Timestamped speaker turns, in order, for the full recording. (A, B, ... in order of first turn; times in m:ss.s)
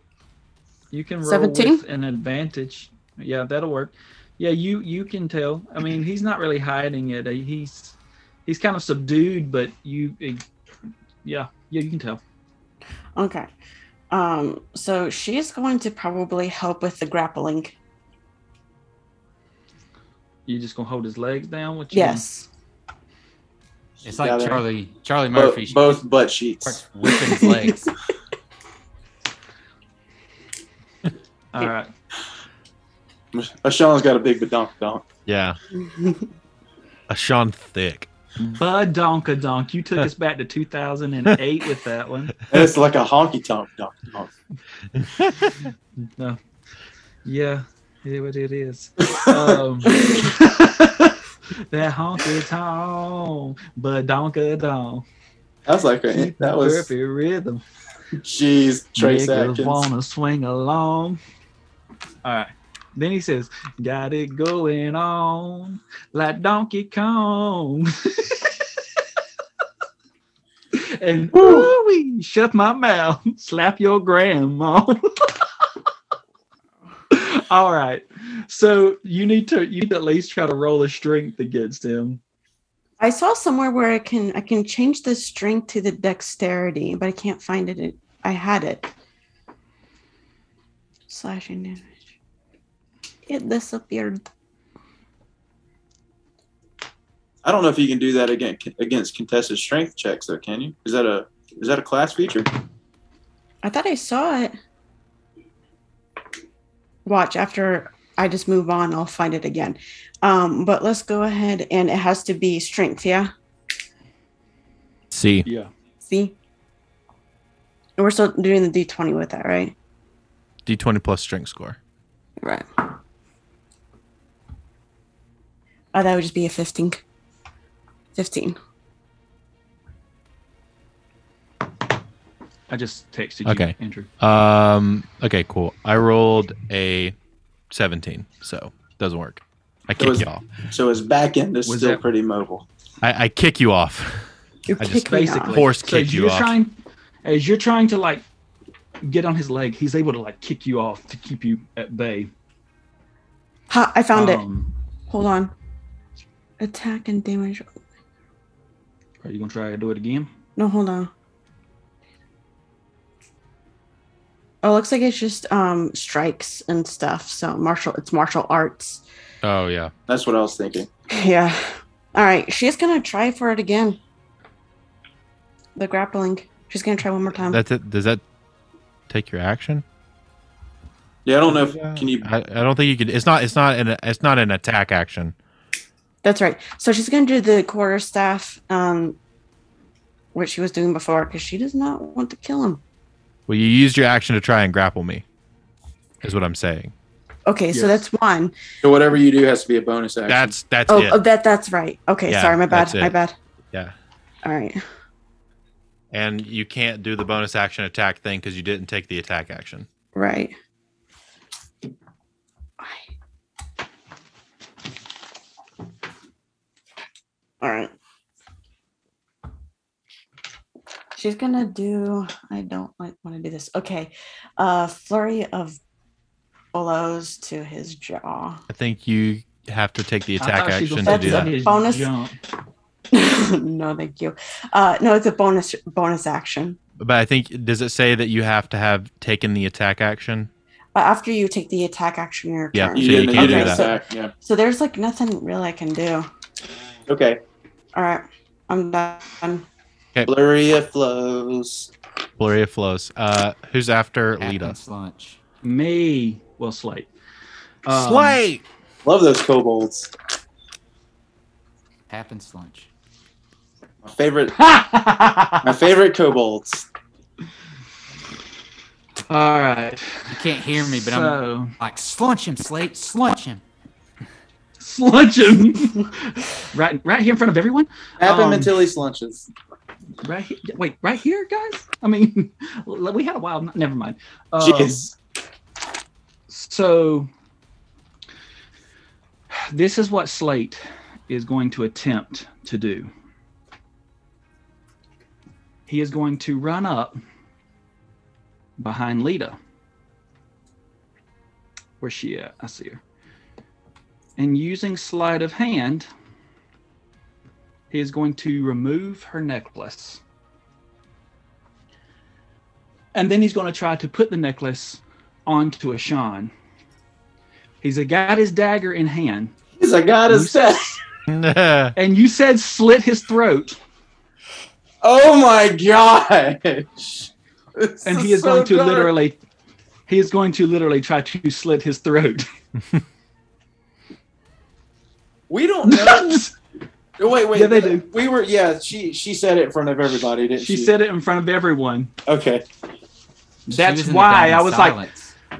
0:00.9-0:10.4 A
0:01.2-0:01.8 B
0:11.2-0:12.2 A
0:13.2-0:13.5 B
0:14.1-0:17.7 B
0:20.5-0:22.2 A
0:21.9-0:22.5 B
0:24.0-0:26.0 C
0:24.2-0:24.6 D
0:25.3-0:26.8 D
0:26.6-0:27.9 C
0:27.1-0:27.8 B
0:31.5-0:31.9 A
0:33.3-0:35.0 D
0:35.2-0:35.6 E
0:35.8-0:36.2 B
0:37.1-0:38.1 E
0:38.4-0:42.3 A
0:42.5-0:44.3 D
0:45.0-0:45.5 E
0:46.0-0:46.4 A
0:47.2-0:55.0 A
0:49.1-0:49.5 D
0:55.6-0:56.9 D
0:56.1-0:57.6 A
0:58.2-0:59.8 D
0:59.0-1:01.2 A
1:02.2-1:08.5 A
1:10.7-1:15.4 A
1:11.3-1:11.7 D
1:17.1-1:22.2 A
1:23.0-1:28.9 B
1:31.1-1:31.9 B
1:33.2-1:34.2 B
1:37.4-1:42.5 D
1:43.6-1:44.5 B
1:47.0-1:53.3 B
1:55.1-1:55.4 E
1:55.4-1:55.7 A
1:56.1-1:56.4 B
1:58.0-1:59.7 B
2:00.6-2:01.8 E
2:02.4-2:02.8 B
2:05.9-2:07.0 B
2:08.1-2:08.6 B
2:12.7-2:14.1 A
2:13.4-2:17.1 E
2:17.7-2:20.4 E
2:20.0-2:22.6 D
2:21.6-2:22.0 A
2:23.0-2:26.5 E
2:24.7-2:25.6 B
2:25.1-2:28.2 A
2:29.0-2:32.3 A
2:33.7-2:34.4 B
2:34.1-2:34.7 A
2:35.1-2:35.5 B
2:36.6-2:37.7 B
2:39.2-2:40.3 A
2:40.6-2:41.1 B
2:44.6-2:49.0 B
2:49.4-2:49.9 E
2:50.1-2:50.9 D
2:51.1-2:54.0 B
2:55.8-2:57.6 B
2:57.4-2:58.2 E
2:59.1-2:59.8 E
3:01.2-3:02.3 D
3:01.5-3:05.3 E
3:06.2-3:09.2 B
3:10.3-3:12.8 B
3:13.5-3:15.2 E
3:16.2-3:16.9 E
3:17.4-3:18.5 B
3:17.7-3:18.0 A
3:18.8-3:20.5 D
3:20.3-3:21.2 E
3:20.9-3:23.3 B
3:22.3-3:23.1 E
3:24.4-3:24.8 B
3:26.1-3:29.9 E
3:30.1-3:30.6 B
3:32.8-3:33.1 B
3:37.6-3:37.9 B
3:41.2-3:45.8 B
3:46.7-3:48.6 B
3:48.7-3:51.5 E
3:50.4-3:52.4 A
3:51.0-3:52.1 B
3:53.1-3:56.8 B
3:57.0-4:00.5 E
4:00.9-4:06.3 B
4:02.7-4:03.9 E
4:02.9-4:04.3 D
4:07.1-4:07.4 D
4:07.9-4:09.6 B
4:10.2-4:11.9 D
4:12.4-4:14.8 E
4:14.4-4:15.4 C
4:15.6-4:17.1 A
4:17.8-4:18.4 A
4:17.9-4:18.6 E
4:19.0-4:20.1 D
4:22.1-4:22.9 C
4:24.0-4:24.6 D
4:24.6-4:25.6 A
4:25.6-4:26.9 D
4:29.3-4:31.7 A
4:30.3-4:33.6 C
4:34.8-4:38.7 A
4:38.2-4:39.5 D
4:40.2-4:45.1 A
4:44.6-4:45.1 D
4:46.5-4:47.3 A
4:49.5-4:53.1 A
4:55.9-4:57.2 A
4:58.8-4:59.6 A
5:02.0-5:03.0 A
5:04.4-5:06.1 A
5:07.9-5:10.2 A
5:13.1-5:16.5 A
5:17.8-5:19.5 A
5:19.8-5:21.0 D
5:20.3-5:20.6 A
5:21.3-5:21.9 E
5:22.0-5:23.8 A
5:25.0-5:29.1 D
5:28.0-5:29.4 A
5:30.1-5:32.5 A
5:35.5-5:36.5 D
5:35.8-5:36.5 A
5:37.2-5:40.9 D
5:37.5-5:38.0 A
5:40.5-5:42.1 A
5:42.2-5:42.6 D
5:43.7-5:45.0 A
5:43.7-5:45.3 C